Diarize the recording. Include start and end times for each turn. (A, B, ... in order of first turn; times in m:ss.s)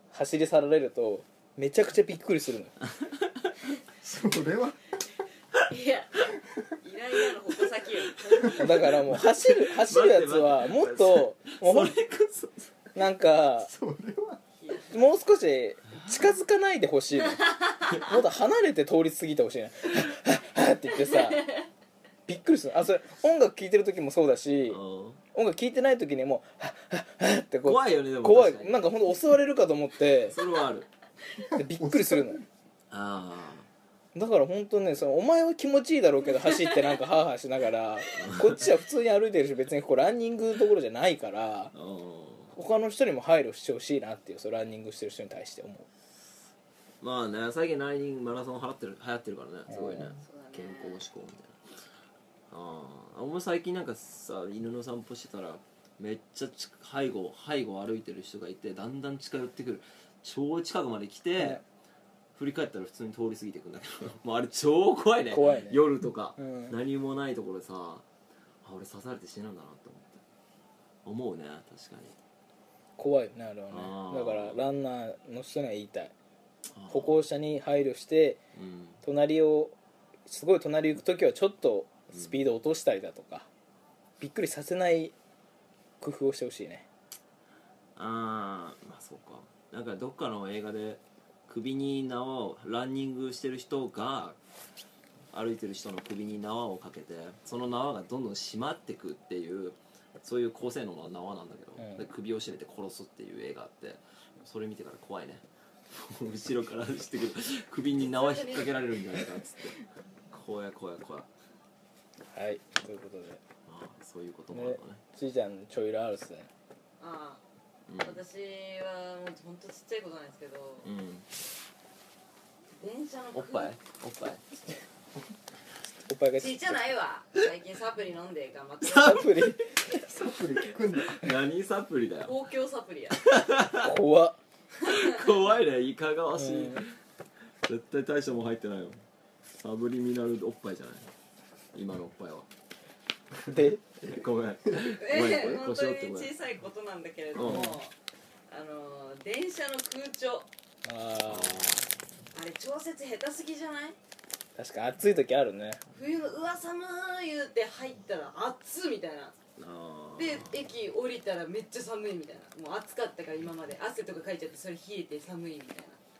0:00.1-0:02.7 A
0:03.0-0:03.5 B
0:04.0-0:04.8 C
0:05.6-0:09.0 D
0:08.4-0:12.7 B
0:08.5-0:11.9 A
0:13.0-0:13.7 A
0:13.7-0:14.4 C
0:14.6-0:15.0 D
0:14.9-0:21.5 A
0:22.3-0:24.8 A
0:24.7-0:25.2 B
0:25.3-0:30.4 A
0:27.6-0:28.8 B
0:30.3-0:30.9 B
0:31.5-0:32.4 A
0:31.7-0:32.4 C
0:32.9-0:33.7 B
0:34.2-0:41.7 A
0:38.2-0:38.6 B
0:41.7-0:42.6 B
0:42.6-0:45.9 A
0:47.0-0:51.6 B
0:49.7-0:50.1 A
0:50.2-0:51.0 D
0:52.5-1:01.6 B
1:02.4-1:08.0 B
1:05.3-1:05.8 A
1:06.4-1:06.8 A
1:08.6-1:10.2 B
1:11.0-1:12.2 B
1:13.0-1:16.1 A
1:13.7-1:14.6 B
1:16.7-1:17.2 B
1:16.9-1:18.4 A
1:18.6-1:19.0 B
1:19.0-1:19.8 A
1:20.3-1:23.5 A
1:24.2-1:25.1 A
1:26.0-1:26.9 A
1:28.0-1:34.4 B
1:35.3-1:51.3 B
1:41.8-1:42.0 A
1:48.0-1:48.8 D
1:52.3-1:53.4 A
1:53.7-1:55.0 B
1:54.5-1:56.5 A
1:57.0-1:57.4 D
1:57.9-1:58.2 B
1:58.0-2:00.9 D
2:00.8-2:01.3 B
2:02.7-2:03.7 D
2:03.3-2:04.4 B
2:06.1-2:06.8 A
2:06.4-2:09.6 D
2:08.8-2:09.7 A
2:09.3-2:09.6 B
2:09.9-2:11.2 C
2:10.8-2:12.4 B
2:12.2-2:13.2 D
2:13.1-2:13.9 B
2:13.8-2:14.4 A
2:14.8-2:17.0 B
2:14.8-2:15.2 D
2:16.4-2:16.8 A
2:17.6-2:19.0 B
2:19.6-2:21.1 B
2:21.7-2:22.5 B
2:23.4-2:26.3 B
2:23.5-2:23.8 A
2:24.8-2:27.9 D
2:27.4-2:27.8 B
2:27.4-2:27.8 A
2:28.5-2:30.5 D
2:30.8-2:31.7 A
2:31.3-2:31.9 B
2:32.3-2:34.0 D
2:34.6-2:35.8 A
2:35.9-2:39.4 D
2:39.6-2:40.6 B
2:40.2-2:46.0 D